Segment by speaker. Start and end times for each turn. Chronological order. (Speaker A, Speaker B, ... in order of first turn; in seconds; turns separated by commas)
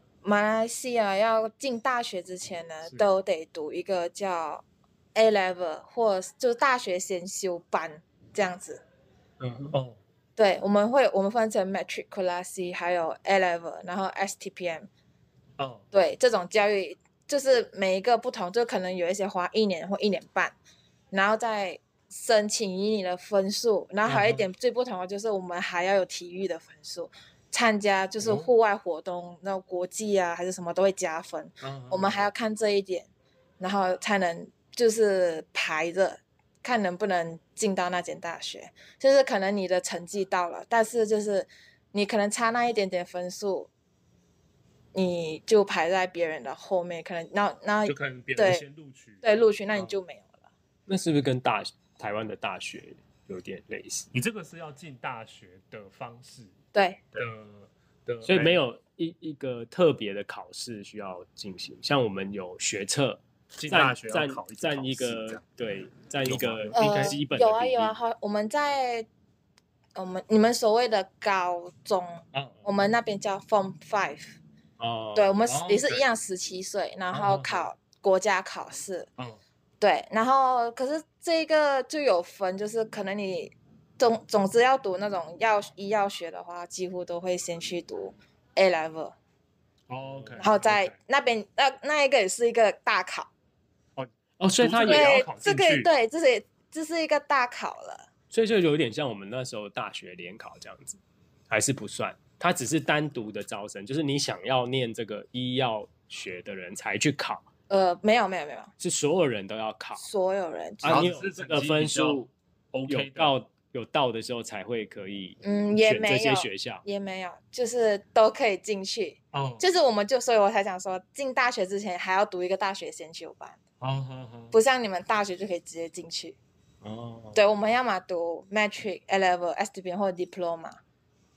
Speaker A: 0.2-4.6, Speaker A: 5.1-8.8, Speaker B: 9.4-9.8, Speaker C: 9.7-10.0, Speaker A: 10.3-14.9, Speaker C: 15.6-15.9, Speaker A: 15.9-20.5, Speaker A: 21.1-33.1, Speaker C: 24.0-24.5, Speaker C: 28.2-28.5, Speaker B: 31.6-32.2, Speaker A: 33.6-43.7, Speaker A: 44.9-48.6, Speaker C: 47.8-50.0, Speaker A: 49.2-50.3, Speaker B: 50.9-54.1, Speaker C: 54.1-56.5, Speaker A: 56.7-57.0, Speaker C: 57.2-58.6, Speaker B: 58.2-68.0, Speaker C: 63.5-65.4, Speaker C: 66.2-67.2, Speaker A: 66.7-69.1, Speaker A: 69.9-74.3, Speaker B: 74.8-75.3, Speaker A: 75.1-79.1, Speaker C: 75.5-76.0, Speaker C: 77.1-77.7, Speaker A: 79.8-89.2, Speaker C: 89.9-91.0, Speaker B: 90.0-90.5, Speaker A: 90.4-93.3, Speaker C: 94.0-95.9, Speaker B: 94.4-95.3, Speaker A: 94.9-98.1, Speaker B: 98.3-107.4, Speaker A: 107.7-108.7, Speaker B: 108.8-110.0, Speaker A: 110.0-111.0, Speaker B: 110.8-112.3, Speaker C: 110.8-113.3, Speaker B: 112.9-116.8, Speaker A: 115.4-123.6, Speaker C: 119.3-119.6, Speaker C: 123.8-124.5, Speaker A: 124.5-126.4, Speaker B: 126.8-127.4, Speaker A: 127.3-130.8